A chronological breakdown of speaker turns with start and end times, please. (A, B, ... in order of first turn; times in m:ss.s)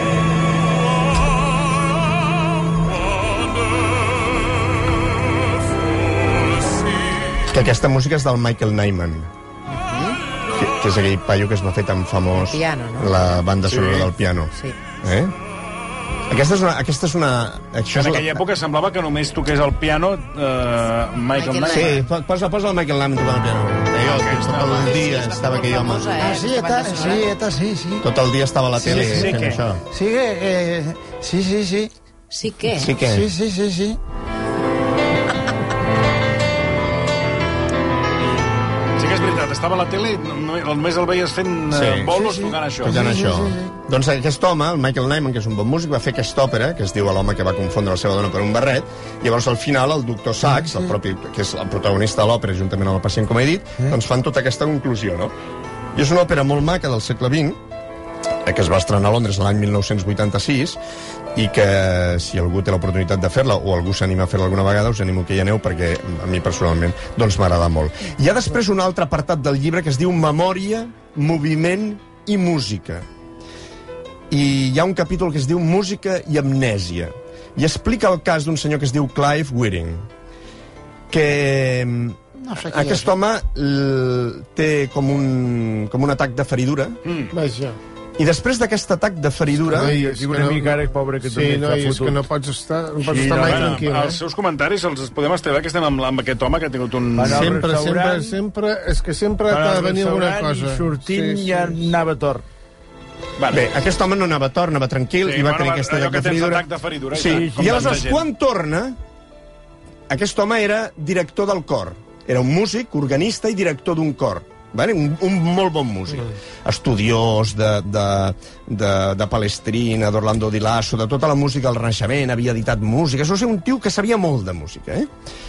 0:07.5-0:09.3 A
0:09.7-0:10.2 B
0:10.5-0:15.3 A
0:12.3-0:13.2 B
0:13.6-0:14.1 C
0:16.3-0:18.4 A
0:17.9-0:22.0 C
0:21.3-0:22.0 B
0:21.7-0:26.1 A
0:24.0-0:24.9 C
0:24.5-0:27.3 B
0:26.2-0:28.1 D
0:28.0-0:29.8 A
0:28.8-0:29.6 C
0:28.8-0:31.9 D
0:32.3-0:32.9 B
0:32.7-0:33.3 A
0:33.0-0:34.0 D
0:39.0-0:43.0 C
0:41.7-0:42.1 A
0:42.1-0:43.7 D
0:42.8-0:55.3 A
0:50.4-0:50.9 D
0:55.9-0:57.6 A
0:58.4-1:00.8 A
1:01.3-1:13.0 A
1:14.3-1:20.1 A
1:21.1-1:27.0 A
1:22.4-1:23.1 D
1:27.0-1:27.3 C
1:27.3-1:27.8 E
1:28.2-1:30.0 A
1:29.7-1:34.2 E
1:29.7-1:32.2 F
1:30.0-1:32.0 D
1:33.0-1:33.8 F
1:33.1-1:33.7 D
1:33.4-1:37.5 C
1:37.2-1:38.4 F
1:37.2-1:38.2 D
1:37.2-1:41.7 E
1:39.5-1:42.4 F
1:39.8-1:42.2 D
1:43.4-1:43.7 C
1:43.5-1:49.0 A
1:45.2-1:48.3 C
1:50.1-2:05.1 A